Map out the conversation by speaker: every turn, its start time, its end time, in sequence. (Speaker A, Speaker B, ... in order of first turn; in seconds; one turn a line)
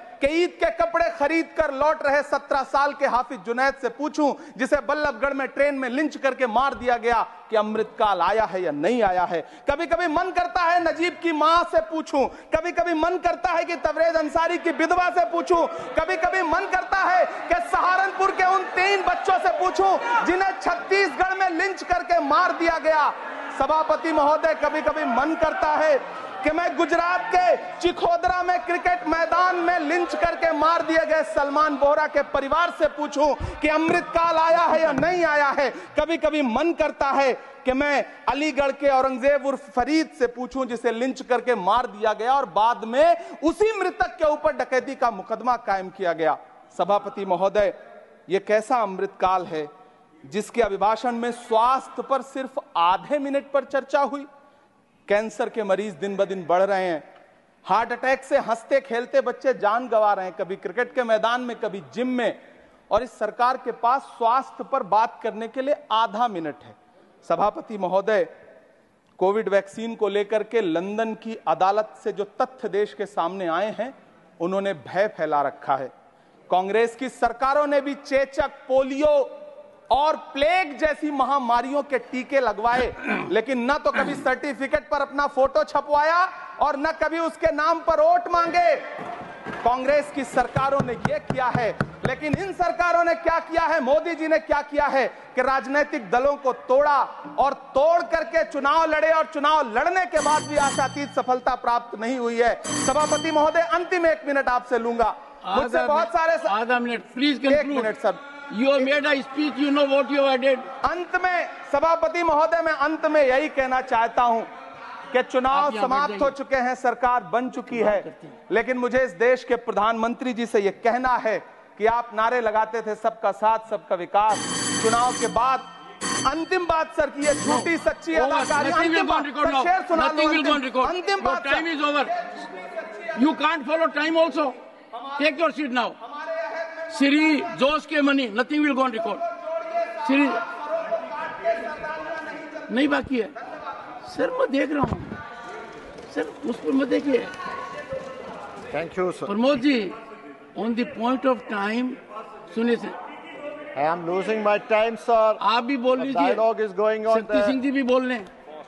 Speaker A: 0.2-49.7
Speaker A: 50.3-54.3
Speaker A: 55.1-57.0
Speaker A: 57.6-62.4
Speaker A: 62.9-68.3
Speaker A: 69.2-75.9
Speaker A: 76.5-79.3
Speaker A: 79.9-88.8
Speaker A: 89.6-106.6
Speaker B: 105.5-107.9
Speaker A: 107.4-108.2
Speaker B: 108.5-110.7
Speaker A: 110.8-114.5
Speaker A: 115.1-125.7
Speaker B: 115.5-116.3
Speaker B: 117.8-118.3
Speaker A: 126.2-133.4
Speaker B: 127.4-132.2
Speaker B: 133.1-134.6
Speaker A: 134.9-135.4
Speaker B: 135.2-136.0
Speaker A: 136.0-137.6
Speaker B: 136.9-139.2
Speaker A: 139.1-142.9
Speaker B: 140.0-140.4
Speaker B: 142.7-143.3
Speaker B: 144.1-145.2
Speaker B: 146.1-147.3
Speaker C: 148.7-149.3
Speaker B: 149.3-150.0
Speaker B: 150.6-153.0
Speaker C: 153.7-155.4
Speaker B: 155.4-156.4
Speaker C: 155.9-157.6
Speaker B: 157.1-158.3